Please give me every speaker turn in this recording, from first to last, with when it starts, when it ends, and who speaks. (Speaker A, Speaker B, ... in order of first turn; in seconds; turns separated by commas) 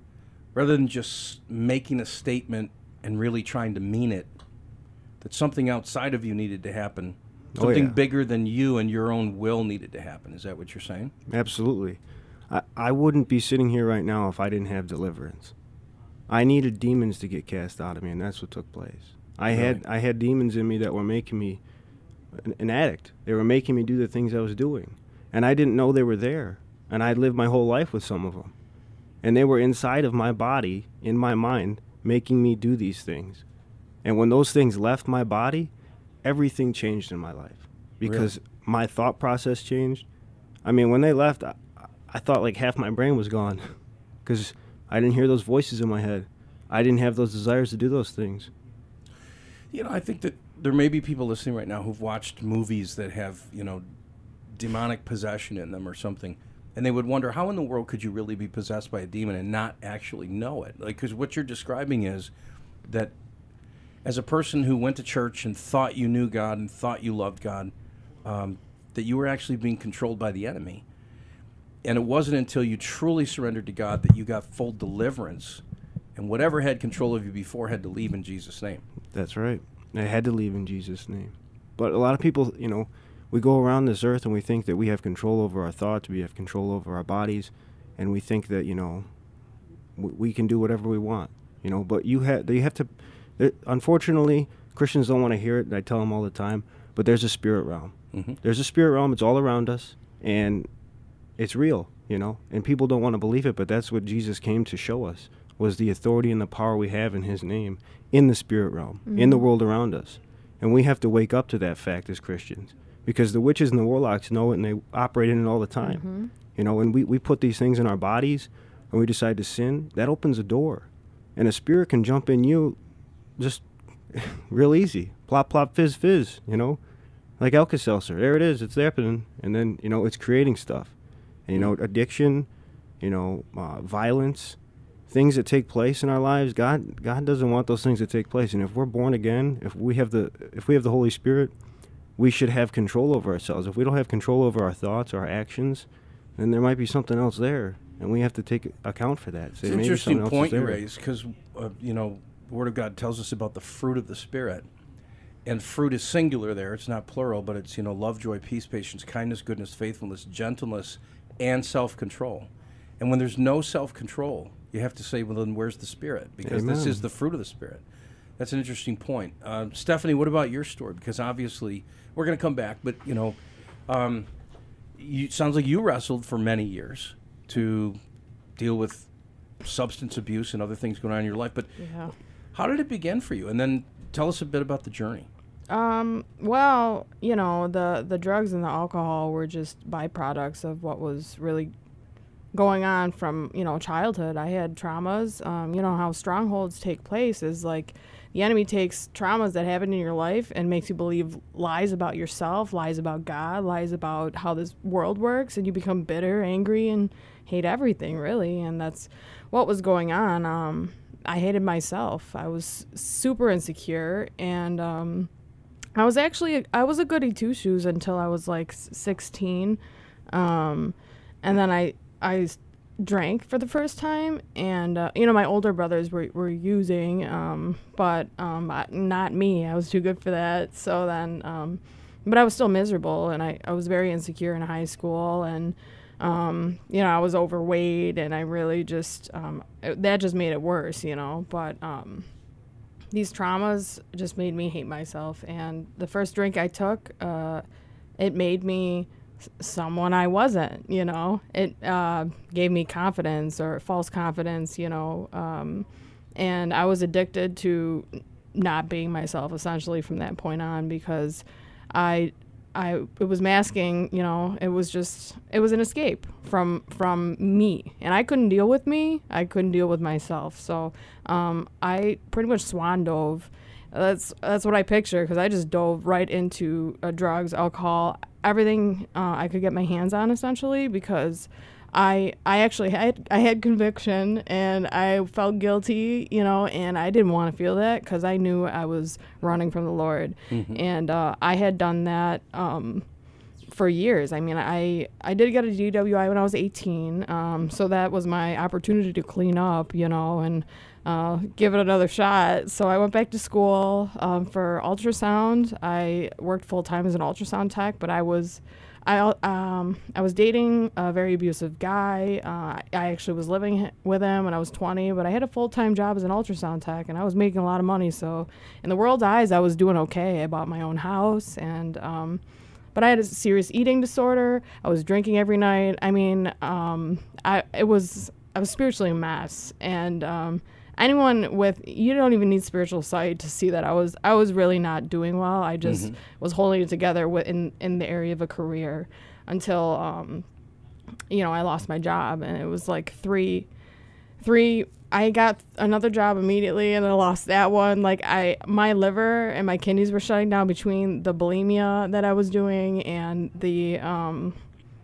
Speaker A: 0.6-4.3, Speaker A: 5.2-11.1, Speaker B: 7.6-8.0, Speaker B: 11.3-15.6, Speaker B: 16.3-21.6, Speaker A: 19.5-19.8, Speaker B: 22.3-28.5, Speaker B: 29.2-33.4, Speaker B: 34.0-35.7, Speaker B: 36.2-40.1, Speaker A: 38.0-38.3, Speaker B: 40.6-43.7, Speaker B: 44.2-48.5, Speaker A: 49.7-53.8, Speaker A: 54.5-62.3, Speaker A: 62.9-63.1, Speaker A: 64.0-67.7, Speaker A: 68.2-70.8, Speaker A: 71.8-75.6, Speaker A: 76.2-78.8, Speaker B: 79.1-89.1, Speaker B: 90.0-100.7, Speaker B: 101.4-116.0, Speaker C: 109.1-109.5, Speaker C: 115.8-116.3, Speaker B: 116.5-122.8, Speaker B: 123.4-126.8, Speaker B: 127.4-130.9, Speaker B: 131.5-132.5, Speaker B: 133.0-141.5, Speaker B: 142.2-150.8, Speaker A: 149.6-154.7, Speaker A: 155.5-167.8, Speaker B: 166.4-167.0, Speaker A: 168.4-173.4, Speaker A: 173.9-174.3, Speaker A: 175.0-178.0, Speaker A: 178.6-179.1, Speaker A: 179.6-181.7, Speaker C: 181.8-182.1, Speaker A: 182.5-185.3, Speaker C: 185.7-191.7, Speaker C: 192.5-215.3, Speaker C: 216.0-219.8, Speaker C: 220.3-242.3, Speaker C: 243.1-247.6, Speaker C: 248.2-293.1, Speaker A: 290.5-290.8, Speaker C: 293.7-322.4, Speaker C: 322.9-340.4, Speaker A: 335.8-336.2, Speaker C: 341.3-343.7, Speaker C: 344.4-354.6